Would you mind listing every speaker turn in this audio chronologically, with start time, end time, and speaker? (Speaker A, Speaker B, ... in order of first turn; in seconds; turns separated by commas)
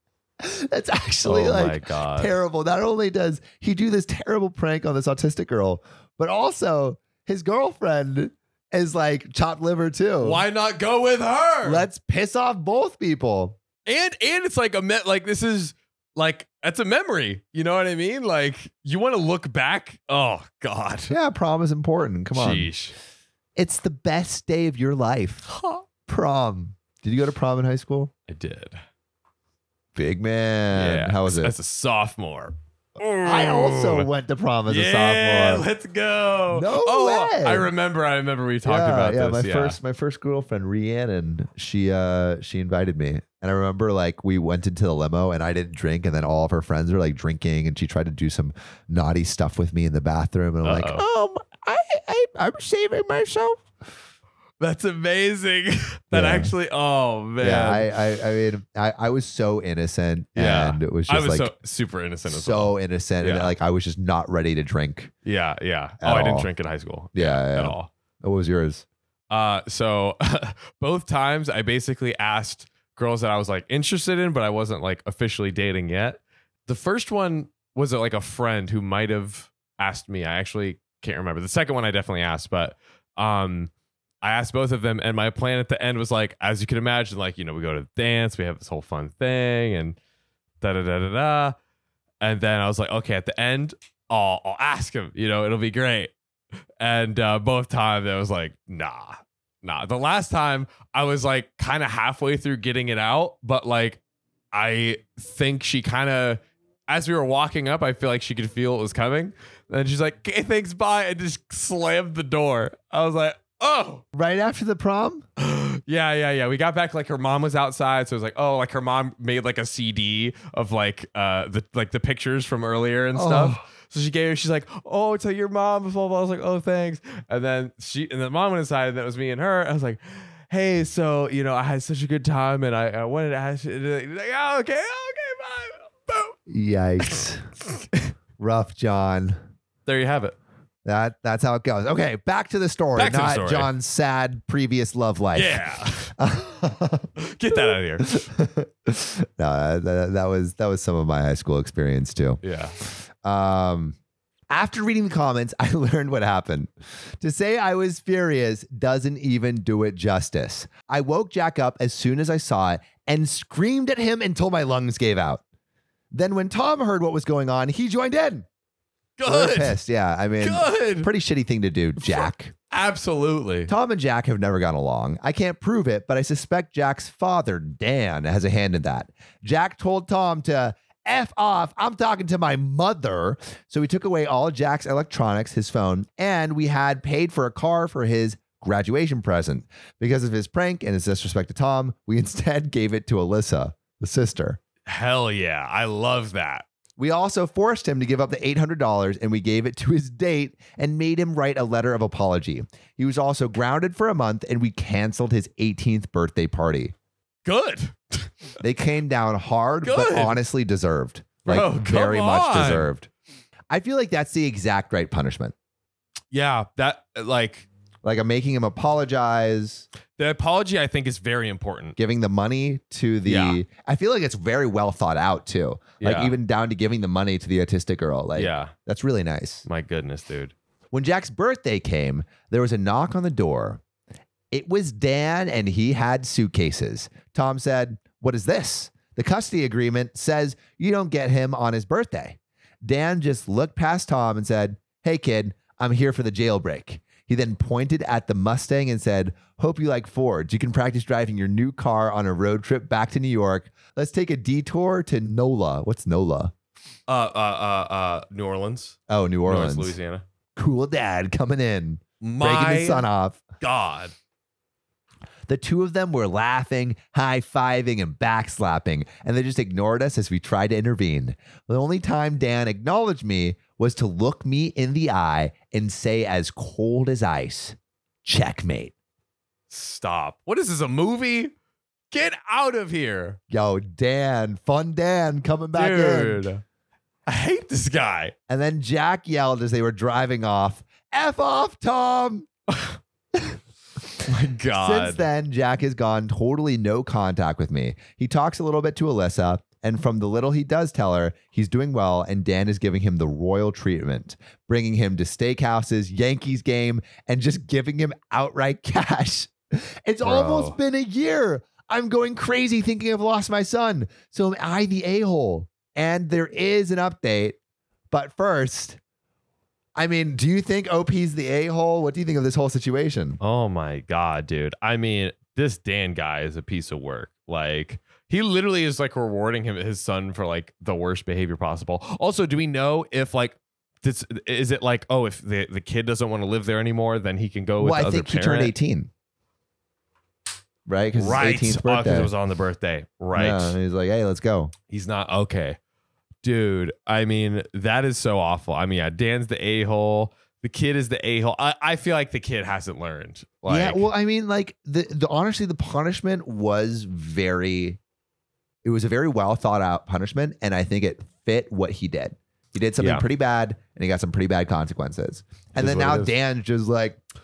Speaker A: 0.4-10.4, Speaker B: 1.2-2.3, Speaker B: 10.2-11.8, Speaker A: 11.6-13.6, Speaker B: 13.8-21.1, Speaker A: 21.1-22.7, Speaker B: 22.3-22.9, Speaker A: 23.6-25.5, Speaker B: 25.5-25.8, Speaker A: 26.1-28.1, Speaker B: 28.3-28.8, Speaker A: 29.9-31.5, Speaker B: 30.7-34.1, Speaker A: 33.2-35.7, Speaker B: 34.7-39.8, Speaker A: 36.5-37.7, Speaker A: 38.6-53.6, Speaker B: 50.6-51.0, Speaker B: 54.6-57.9, Speaker A: 56.1-56.5, Speaker A: 57.4-61.5, Speaker B: 60.3-63.5, Speaker A: 62.3-65.1, Speaker B: 65.2-67.9, Speaker A: 66.0-66.5, Speaker A: 67.1-68.8, Speaker B: 69.3-83.7, Speaker B: 84.2-90.0, Speaker B: 90.6-91.5, Speaker B: 92.2-96.1, Speaker B: 96.8-104.0, Speaker B: 104.5-114.0, Speaker A: 114.1-115.2, Speaker B: 115.4-136.4, Speaker A: 123.1-123.6, Speaker A: 136.5-137.5, Speaker A: 138.4-139.4, Speaker B: 139.8-140.3, Speaker A: 140.8-153.9, Speaker B: 142.9-143.7, Speaker B: 145.3-146.1, Speaker B: 147.2-148.1, Speaker B: 152.4-152.7, Speaker A: 154.5-165.4, Speaker A: 166.1-168.4, Speaker B: 169.2-169.8, Speaker A: 169.2-172.5, Speaker B: 170.4-171.1, Speaker B: 172.0-173.7, Speaker A: 173.7-194.6, Speaker B: 194.8-196.7, Speaker A: 197.0-206.9, Speaker B: 207.4-208.3, Speaker A: 208.6-213.1, Speaker B: 209.8-210.4, Speaker B: 211.4-212.9, Speaker A: 213.7-215.5, Speaker B: 216.3-217.7, Speaker A: 218.0-219.8, Speaker B: 220.2-221.9, Speaker A: 222.0-229.7, Speaker B: 223.2-223.6, Speaker B: 226.0-226.3, Speaker B: 228.3-228.7, Speaker B: 229.7-230.5, Speaker A: 230.9-233.8, Speaker A: 234.5-256.5, Speaker B: 257.1-260.2, Speaker A: 259.1-259.9, Speaker A: 260.6-263.4, Speaker B: 262.2-263.1, Speaker B: 263.6-264.1, Speaker A: 265.5-278.9, Speaker B: 279.7-281.5, Speaker B: 282.1-283.4, Speaker A: 283.5-286.4, Speaker B: 285.7-286.6, Speaker B: 287.2-288.3, Speaker A: 288.5-292.5, Speaker B: 292.7-292.9, Speaker B: 294.2-295.2, Speaker A: 294.7-317.6, Speaker B: 310.2-310.8, Speaker A: 318.1-319.0, Speaker A: 320.0-323.4, Speaker B: 323.4-338.7, Speaker A: 337.8-339.1, Speaker A: 340.9-342.3, Speaker B: 341.1-343.7, Speaker A: 343.3-344.7, Speaker B: 344.9-345.8, Speaker B: 346.4-354.1, Speaker A: 353.6-358.0, Speaker A: 358.8-367.2, Speaker B: 363.0-363.2, Speaker B: 365.8-366.3